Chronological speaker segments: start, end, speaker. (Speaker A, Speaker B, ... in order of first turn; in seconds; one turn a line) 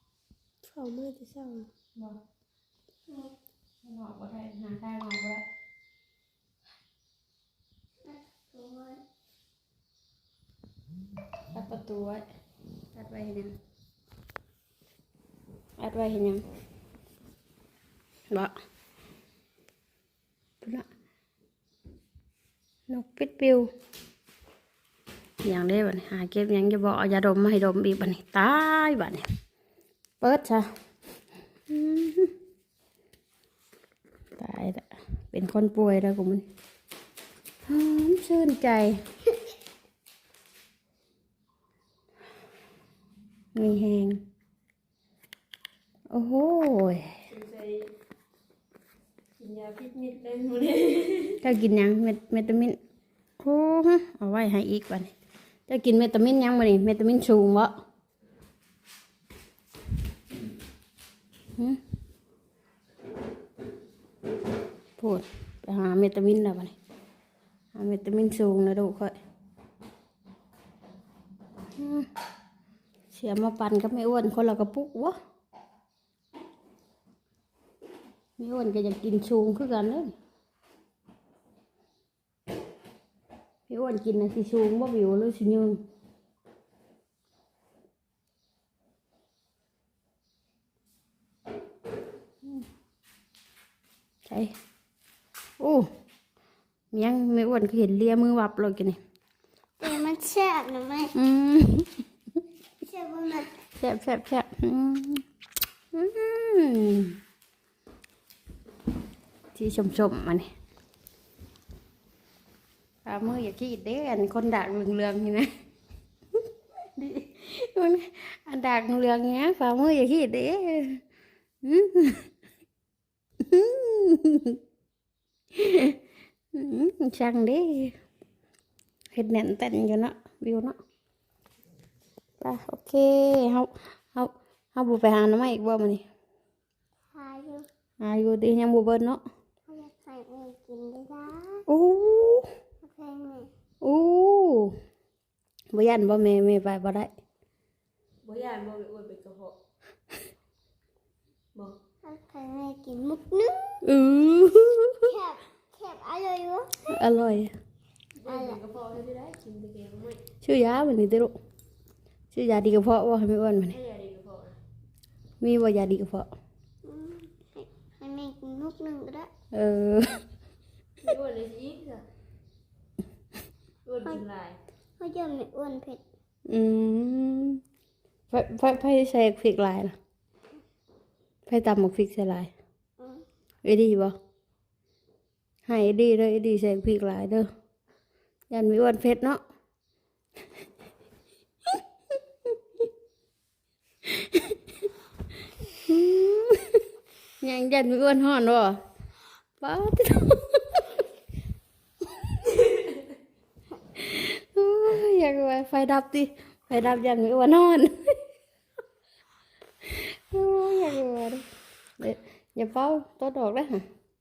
Speaker A: 0.6-1.7
Speaker B: 3.1-3.3
Speaker C: 3.8-5.4
Speaker B: 8.0-9.0
Speaker C: 11.5-12.2
Speaker C: 12.9-13.6
Speaker C: 15.8-16.4
Speaker C: 20.6-20.9
Speaker C: 22.9-23.7
Speaker C: 25.4-29.2
Speaker C: 30.2-30.6
Speaker C: 31.7-32.3
Speaker C: 34.4-36.4
Speaker C: 37.6-39.0
Speaker C: 43.5-44.2
Speaker C: 46.1-47.1
Speaker A: 47.3-47.9
Speaker A: 49.4-51.4
Speaker C: 51.4-52.8
Speaker C: 53.4-55.1
Speaker C: 55.7-57.7
Speaker C: 65.0-66.7
Speaker C: 67.7-69.2
Speaker C: 71.8-72.1
Speaker C: 73.1-75.2
Speaker C: 78.4-80.1
Speaker C: 83.7-85.8
Speaker C: 94.2-94.5
Speaker C: 95.6-95.9
Speaker C: 96.9-99.0
Speaker B: 99.8-101.1
Speaker C: 101.1-102.0
Speaker B: 102.8-103.5
Speaker C: 103.7-105.2
Speaker C: 105.9-107.2
Speaker C: 109.5-110.5
Speaker C: 113.0-115.5
Speaker C: 117.0-121.0
Speaker C: 121.6-122.3
Speaker C: 123.4-124.6
Speaker C: 125.5-126.0
Speaker C: 126.5-128.0
Speaker C: 129.1-130.8
Speaker C: 132.4-136.0
Speaker B: 137.1-137.7
Speaker C: 138.0-139.2
Speaker B: 139.7-141.6
Speaker C: 141.7-142.5
Speaker B: 142.8-143.5
Speaker C: 143.8-144.8
Speaker C: 145.7-147.1
Speaker A: 148.2-149.5
Speaker B: 152.0-153.8
Speaker C: 153.8-155.1
Speaker B: 155.0-157.0
Speaker C: 156.9-157.5
Speaker A: 158.2-160.2
Speaker B: 158.2-158.6
Speaker C: 160.4-161.3
Speaker C: 162.3-163.8
Speaker A: 163.7-164.6
Speaker C: 165.4-166.3
Speaker B: 166.8-169.3
Speaker C: 169.5-170.2
Speaker A: 171.0-172.0
Speaker A: 173.8-174.6
Speaker B: 175.0-176.0
Speaker C: 176.4-177.6
Speaker C: 178.3-179.9
Speaker C: 181.5-182.5
Speaker B: 183.0-183.2
Speaker C: 183.6-184.1
Speaker C: 185.7-187.5
Speaker C: 188.5-189.4
Speaker C: 194.0-194.6
Speaker C: 195.8-196.8
Speaker C: 197.4-198.8
Speaker C: 199.6-201.0
Speaker C: 203.9-208.2
Speaker C: 209.8-211.4
Speaker C: 212.0-213.8